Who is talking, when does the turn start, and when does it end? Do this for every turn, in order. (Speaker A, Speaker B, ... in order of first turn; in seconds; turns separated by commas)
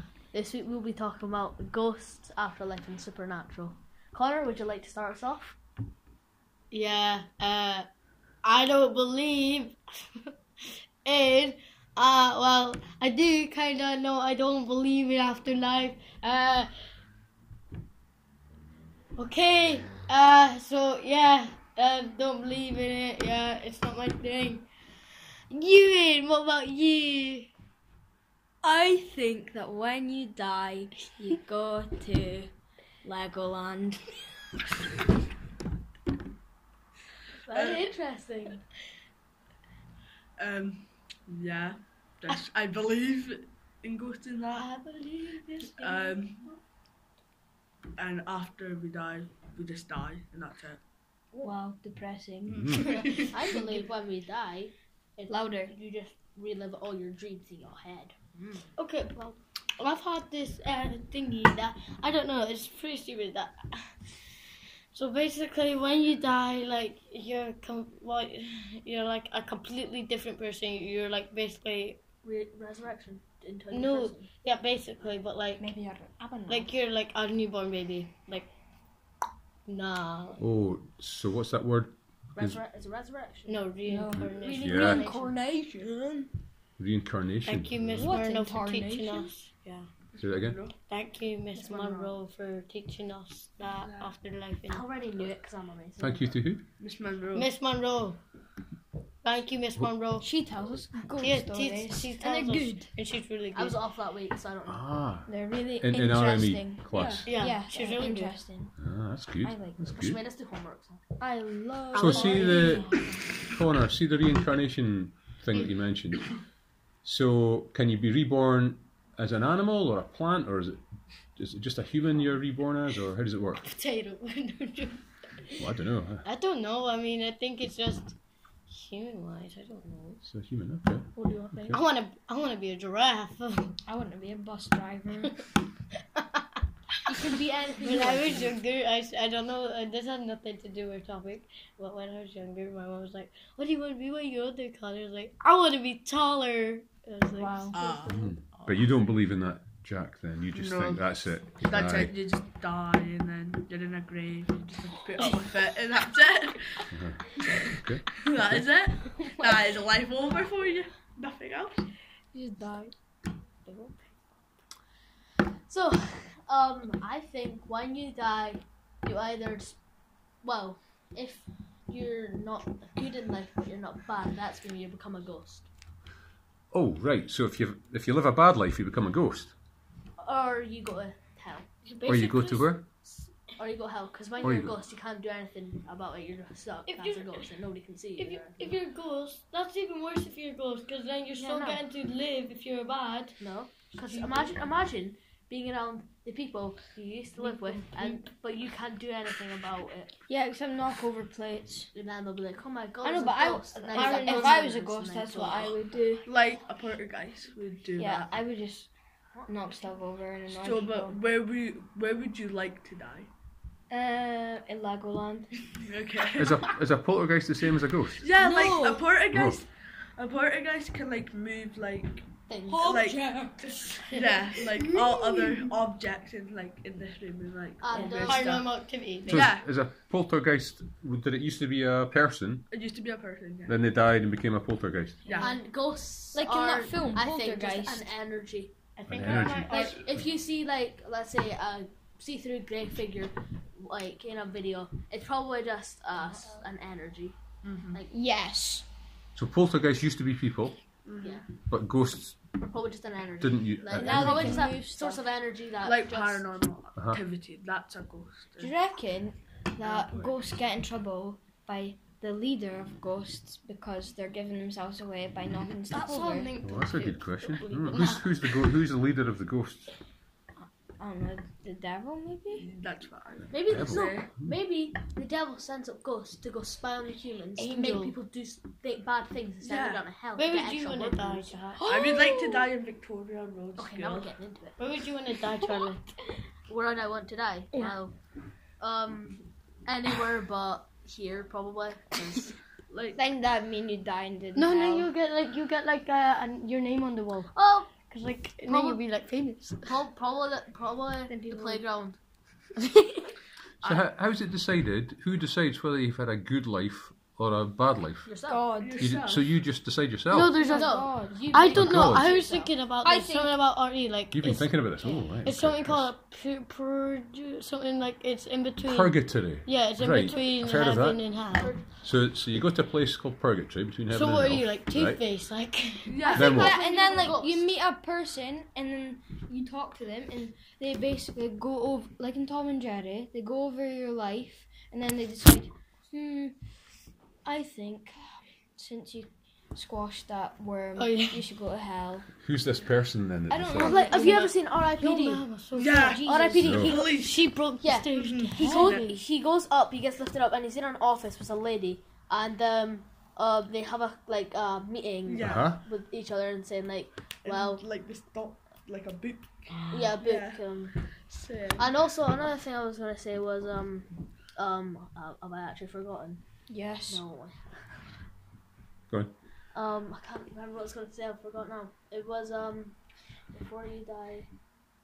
Speaker A: 0.3-5.6, Speaker B: 6.7-7.9, Speaker B: 8.4-9.8, Speaker B: 11.1-16.7, Speaker B: 19.2-24.7, Speaker B: 25.5-27.5, Speaker C: 28.6-34.1, Speaker A: 37.3-38.6, Speaker D: 37.5-37.9, Speaker D: 40.4-44.7, Speaker B: 44.5-46.2, Speaker D: 45.8-46.4, Speaker D: 48.0-50.8, Speaker C: 51.4-53.4, Speaker D: 52.5-53.3, Speaker E: 52.6-52.9, Speaker B: 52.9-53.6, Speaker A: 53.0-58.7, Speaker C: 55.3-55.7, Speaker B: 58.8-64.1, Speaker B: 64.9-72.0, Speaker A: 72.2-74.3, Speaker B: 73.7-75.7, Speaker C: 75.6-76.7, Speaker B: 76.5-78.5, Speaker B: 79.7-80.4, Speaker E: 80.4-82.6, Speaker A: 82.3-83.6, Speaker B: 83.5-85.3, Speaker C: 83.9-86.3, Speaker E: 84.1-85.1, Speaker E: 86.8-88.1, Speaker B: 87.5-89.9, Speaker C: 88.0-89.3, Speaker D: 90.2-90.7, Speaker E: 90.2-90.6, Speaker B: 90.9-94.9, Speaker A: 91.5-92.2, Speaker D: 93.7-94.1, Speaker A: 94.7-96.4, Speaker E: 96.0-96.7, Speaker D: 96.8-97.5, Speaker B: 97.3-98.2, Speaker B: 99.2-100.3, Speaker C: 100.2-102.9, Speaker B: 101.2-103.8, Speaker A: 103.5-104.9, Speaker E: 104.7-107.3, Speaker C: 105.3-108.7, Speaker D: 106.9-107.3, Speaker B: 107.3-108.4, Speaker E: 108.8-110.2, Speaker C: 109.4-109.8, Speaker A: 109.8-111.0, Speaker C: 111.2-113.2, Speaker A: 111.9-112.8, Speaker E: 111.9-116.3, Speaker B: 115.5-115.8, Speaker E: 117.0-120.8, Speaker E: 121.4-123.7, Speaker B: 123.6-125.7, Speaker E: 125.6-126.2, Speaker B: 126.2-128.2, Speaker B: 128.7-130.2, Speaker E: 130.3-131.8, Speaker A: 131.2-131.8, Speaker B: 131.7-133.8, Speaker C: 133.9-135.4, Speaker A: 137.1-138.6, Speaker B: 137.8-147.9, Speaker C: 147.3-147.9, Speaker D: 147.7-149.0, Speaker E: 148.1-152.1, Speaker D: 150.5-161.9, Speaker E: 156.9-157.2, Speaker E: 157.8-158.6, Speaker C: 162.3-162.9, Speaker C: 163.7-164.2, Speaker A: 165.7-169.8, Speaker A: 170.4-175.7, Speaker E: 176.7-179.6, Speaker A: 180.2-181.7, Speaker B: 181.9-182.6, Speaker E: 182.1-182.9, Speaker A: 183.6-188.7, Speaker E: 184.4-184.8, Speaker B: 186.9-187.5, Speaker B: 188.2-193.4, Speaker A: 191.4-191.8, Speaker A: 193.4-200.1, Speaker B: 193.9-194.6, Speaker B: 197.4-198.2, Speaker C: 200.3-201.9, Speaker A: 201.9-205.8, Speaker C: 203.0-206.3, Speaker B: 203.9-204.7, Speaker D: 206.2-208.3, Speaker C: 208.0-208.9, Speaker C: 209.5-211.2, Speaker D: 210.5-213.3, Speaker C: 213.9-215.6, Speaker D: 215.8-216.8, Speaker E: 216.4-218.2, Speaker D: 218.2-222.3, Speaker C: 218.3-219.1, Speaker E: 219.3-219.6, Speaker A: 222.5-222.9, Speaker C: 222.7-225.7, Speaker D: 222.8-223.2, Speaker B: 224.0-224.4, Speaker D: 224.1-229.7, Speaker A: 227.8-228.6, Speaker C: 227.9-228.3, Speaker B: 228.2-229.4, Speaker E: 229.3-232.7, Speaker D: 232.7-233.8, Speaker E: 233.7-235.2, Speaker D: 235.2-235.6, Speaker C: 235.3-235.6, Speaker A: 235.4-247.4, Speaker C: 236.3-238.1, Speaker B: 239.0-240.0, Speaker E: 239.1-240.3, Speaker D: 247.6-248.0, Speaker C: 248.1-248.9, Speaker E: 249.3-250.8, Speaker D: 251.0-251.4, Speaker A: 251.2-251.5, Speaker E: 251.6-252.4, Speaker A: 252.6-256.5, Speaker E: 253.4-254.6, Speaker C: 253.9-255.3, Speaker D: 255.8-258.7, Speaker E: 256.9-257.2, Speaker C: 258.6-266.5, Speaker D: 259.8-260.4, Speaker B: 265.9-268.6, Speaker E: 266.6-269.9, Speaker C: 270.6-272.6, Speaker D: 272.5-274.3, Speaker A: 273.5-281.5, Speaker E: 273.6-274.5, Speaker B: 277.6-278.2, Speaker D: 279.6-280.0, Speaker B: 280.4-281.9, Speaker C: 281.8-282.7, Speaker D: 281.8-284.3, Speaker A: 283.8-284.8, Speaker B: 284.8-286.0, Speaker A: 286.7-288.1, Speaker A: 288.8-292.6, Speaker D: 292.9-293.2, Speaker C: 293.1-295.1, Speaker B: 294.6-297.5, Speaker A: 297.5-297.9, Speaker B: 298.0-299.9, Speaker A: 298.7-299.0, Speaker A: 299.9-302.2, Speaker C: 301.3-301.9, Speaker B: 302.8-303.3, Speaker D: 303.8-304.1, Speaker E: 303.8-308.3, Speaker A: 308.2-308.8, Speaker C: 308.5-309.1, Speaker D: 308.8-309.6, Speaker E: 309.0-310.6, Speaker B: 310.3-321.8, Speaker C: 310.5-313.6, Speaker A: 310.6-311.8, Speaker E: 311.6-312.4, Speaker E: 314.3-316.1, Speaker E: 318.8-321.2, Speaker A: 321.5-321.9, Speaker E: 322.0-325.2, Speaker B: 324.1-326.2, Speaker D: 326.1-327.1, Speaker C: 326.2-336.6, Speaker E: 326.3-326.8, Speaker A: 326.3-327.7, Speaker C: 337.4-338.2, Speaker C: 338.8-342.3, Speaker B: 341.0-341.5, Speaker E: 342.4-344.0, Speaker C: 343.5-344.4, Speaker B: 343.8-349.2, Speaker A: 343.8-345.4, Speaker D: 345.8-347.5, Speaker C: 345.9-346.5, Speaker A: 346.2-347.2, Speaker E: 346.6-346.9, Speaker A: 347.8-357.9, Speaker D: 348.1-349.1, Speaker D: 355.3-355.7, Speaker E: 355.4-355.8, Speaker D: 357.4-360.6, Speaker A: 359.9-361.0, Speaker D: 361.3-361.9, Speaker A: 361.8-366.4, Speaker C: 366.7-367.2, Speaker A: 367.1-367.6, Speaker E: 369.1-369.3, Speaker A: 369.7-373.0, Speaker A: 373.5-374.5